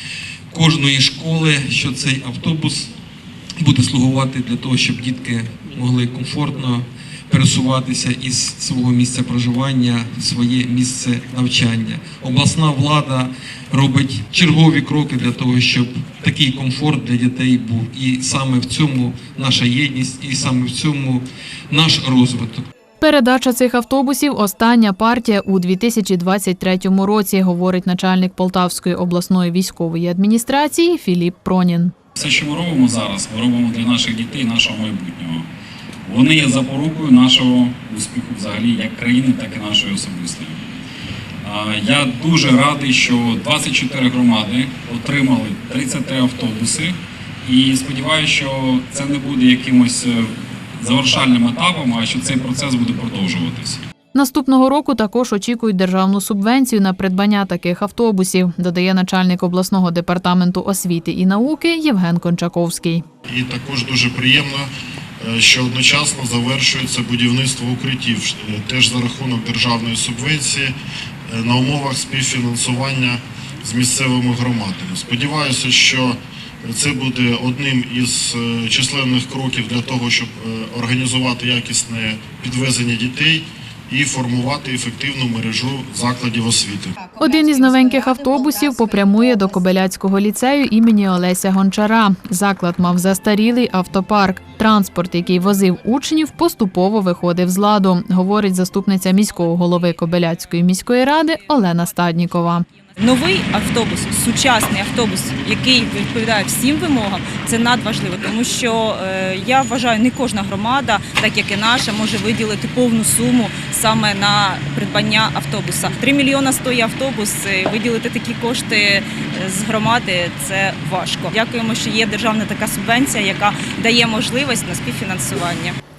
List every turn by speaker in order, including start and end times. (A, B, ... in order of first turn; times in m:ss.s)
0:00.5-0:02.9 A
0:03.6-0:22.6 A
0:23.0-0:31.9 B
0:32.2-0:35.4 C
0:36.0-0:40.7 C
0:41.4-0:53.8 C
0:54.1-1:03.0 B
1:03.3-1:10.7 D
1:11.3-1:27.0 D
1:27.2-1:42.6 B
1:43.0-2:05.8 E